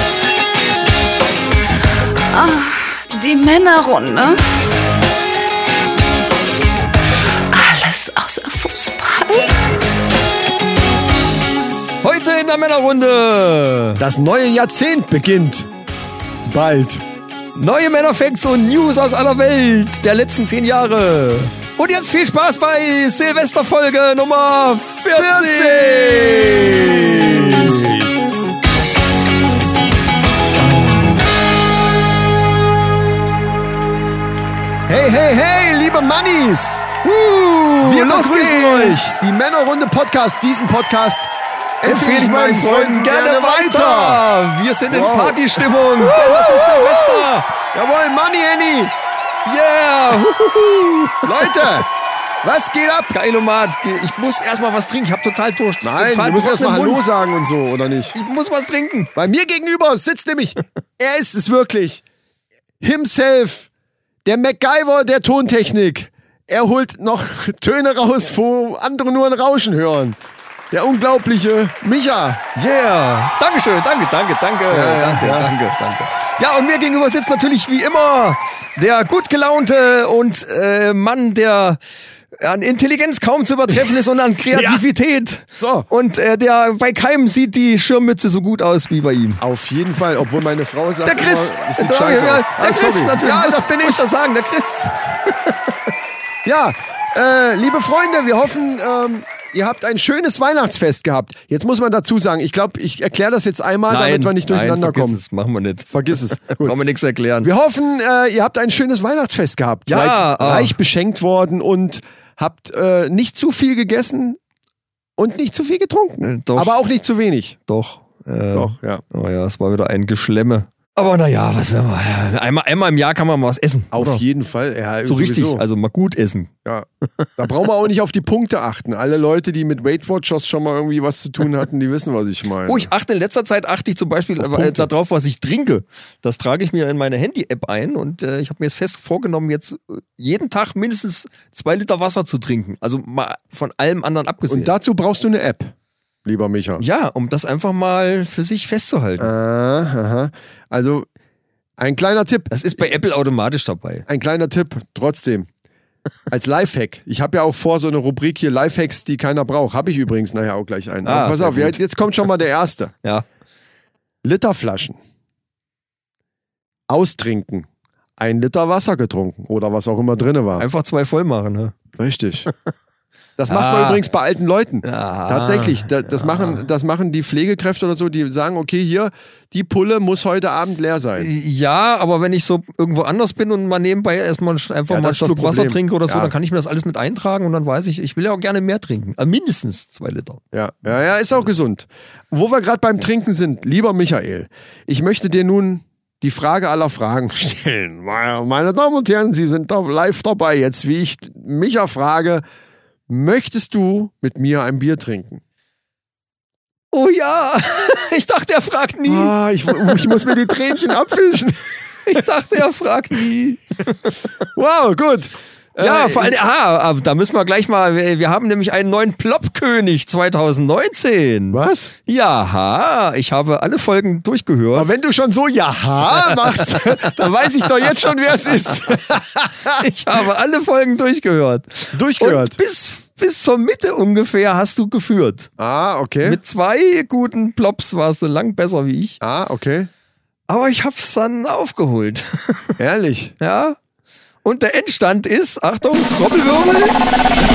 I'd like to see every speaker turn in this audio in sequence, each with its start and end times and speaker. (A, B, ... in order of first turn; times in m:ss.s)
0:02.3-0:04.4 A
0:07.5-0:09.5 A
0:12.0-0:14.0 B
0:14.0-0:15.7 C
0:16.5-0:17.0 C
0:17.6-0:26.0 B
0:25.1-0:28.1 C
0:34.9-0:36.8 C
0:37.0-0:39.0 B
0:37.8-0:44.2 C
0:41.8-0:47.5 B
0:44.9-0:48.9 C
0:49.4-0:51.8 B
0:51.2-0:51.9 C
0:52.4-0:53.1 C
0:53.1-0:57.0 B
0:55.8-0:58.2 C
0:58.2-0:59.1 B
0:59.2-1:02.0 C
1:02.8-1:03.7 C
1:04.2-1:10.2 C
1:10.7-1:12.4 C
1:12.6-1:21.8 B
1:14.7-1:15.5 C
1:22.4-1:29.4 B
1:24.5-1:24.8 C
1:25.6-1:25.9 C
1:29.4-1:34.1 C
1:31.0-1:35.6 B
1:36.4-1:45.2 C
1:43.9-1:47.5 B
1:45.9-1:46.8 C
1:47.4-1:54.4 C
1:49.9-1:50.8 B
1:55.2-1:57.6 C
1:56.2-1:56.8 B
1:57.7-2:04.2 B
1:58.5-1:59.0 C
2:03.9-2:05.6 C
2:05.0-2:06.5 B
2:07.4-2:12.9 C
2:12.7-2:24.8 B
2:14.4-2:14.9 C
2:24.5-2:25.7 C
2:26.2-2:26.8 C
2:26.8-2:29.3 B
2:29.2-2:31.1 C
2:31.8-2:32.9 C
2:32.5-2:34.1 B
2:34.1-2:35.5 C
2:36.3-2:42.9 C
2:41.0-2:41.8 B
2:44.2-2:45.0 C
2:46.9-2:47.7 C
2:48.2-2:50.6 C
2:50.6-2:51.8 B
2:52.0-2:52.5 C
2:53.4-3:01.3 C
2:53.5-2:54.0 B
2:54.8-2:56.6 B
3:01.2-3:10.4 B
3:04.9-3:06.3 C
3:10.5-3:22.4 C
3:23.1-3:25.4 C
3:26.9-3:30.1 B
3:29.1-3:31.6 C
3:32.1-3:34.2 B
3:34.5-3:36.4 C
3:35.8-3:44.9 B
3:41.5-3:41.9 C
3:44.8-3:49.9 C
3:46.3-3:47.1 B
3:49.7-3:55.5 B
3:51.9-3:52.6 C
3:55.6-3:56.4 C
3:56.2-3:59.2 B
3:59.2-3:59.9 C
4:00.5-4:02.8 B
4:02.8-4:03.4 C
4:03.4-4:03.8 B
4:04.4-4:07.0 B